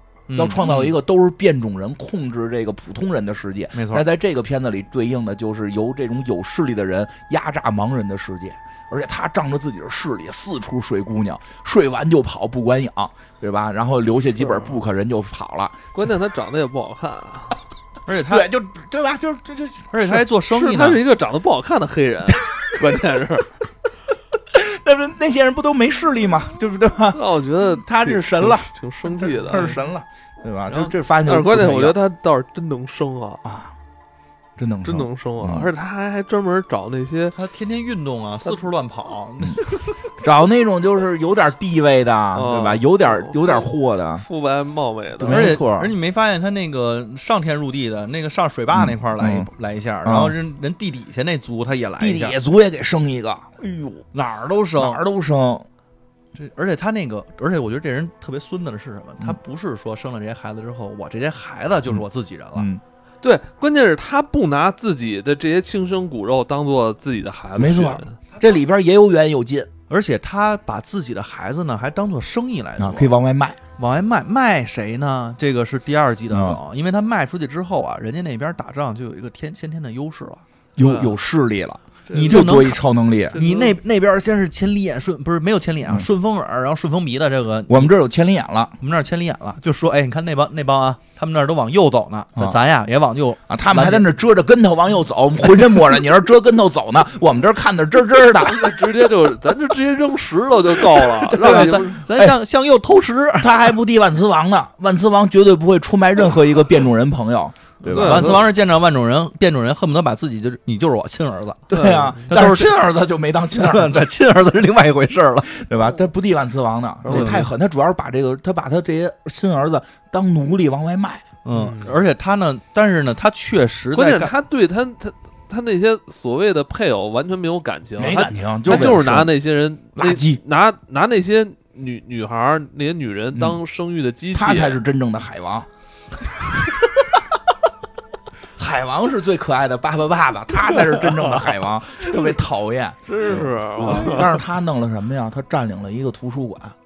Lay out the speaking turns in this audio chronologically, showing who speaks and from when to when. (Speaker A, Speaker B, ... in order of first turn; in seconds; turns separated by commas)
Speaker A: 0.3-0.9, Speaker B: 0.4-15.8, Speaker A: 3.7-4.0, Speaker C: 14.4-14.7, Speaker C: 15.9-17.6, Speaker A: 18.1-18.5, Speaker B: 18.3-20.2, Speaker A: 19.9-21.0, Speaker C: 20.5-23.5, Speaker B: 24.5-32.0, Speaker C: 27.1-29.8, Speaker C: 30.7-33.4, Speaker B: 33.4-33.7, Speaker B: 34.6-35.7, Speaker C: 34.8-37.4, Speaker A: 37.3-40.1, Speaker B: 40.2-44.2, Speaker C: 42.3-45.5, Speaker B: 45.2-45.9, Speaker A: 45.2-52.4, Speaker B: 48.7-49.5, Speaker B: 50.0-50.4, Speaker B: 52.0-54.0, Speaker A: 54.1-55.0, Speaker B: 54.8-55.7, Speaker A: 56.3-62.7, Speaker B: 62.5-62.8, Speaker C: 63.2-68.2, Speaker B: 67.5-69.7, Speaker A: 69.9-73.1, Speaker B: 72.8-73.6, Speaker A: 73.8-80.4, Speaker B: 76.3-76.6, Speaker B: 80.8-83.4, Speaker C: 80.8-81.1, Speaker C: 82.1-82.5, Speaker A: 82.1-87.9, Speaker C: 83.3-83.8, Speaker B: 87.7-88.8, Speaker A: 88.8-94.1, Speaker B: 93.5-98.8, Speaker C: 98.4-102.0, Speaker B: 101.3-102.4, Speaker A: 101.3-103.7, Speaker B: 103.4-108.5, Speaker C: 107.9-108.5, Speaker A: 107.9-112.7, Speaker C: 111.7-112.3, Speaker B: 111.7-114.0, Speaker A: 113.6-115.6, Speaker B: 115.5-121.3, Speaker C: 117.0-117.5, Speaker A: 117.1-117.5, Speaker A: 121.5-124.3, Speaker C: 121.5-122.0, Speaker C: 123.9-134.8, Speaker B: 128.0-129.3, Speaker B: 129.9-130.4, Speaker B: 133.3-133.6, Speaker B: 134.3-135.7, Speaker B: 136.2-137.2, Speaker B: 138.6-146.8, Speaker C: 140.7-141.5, Speaker C: 143.1-144.3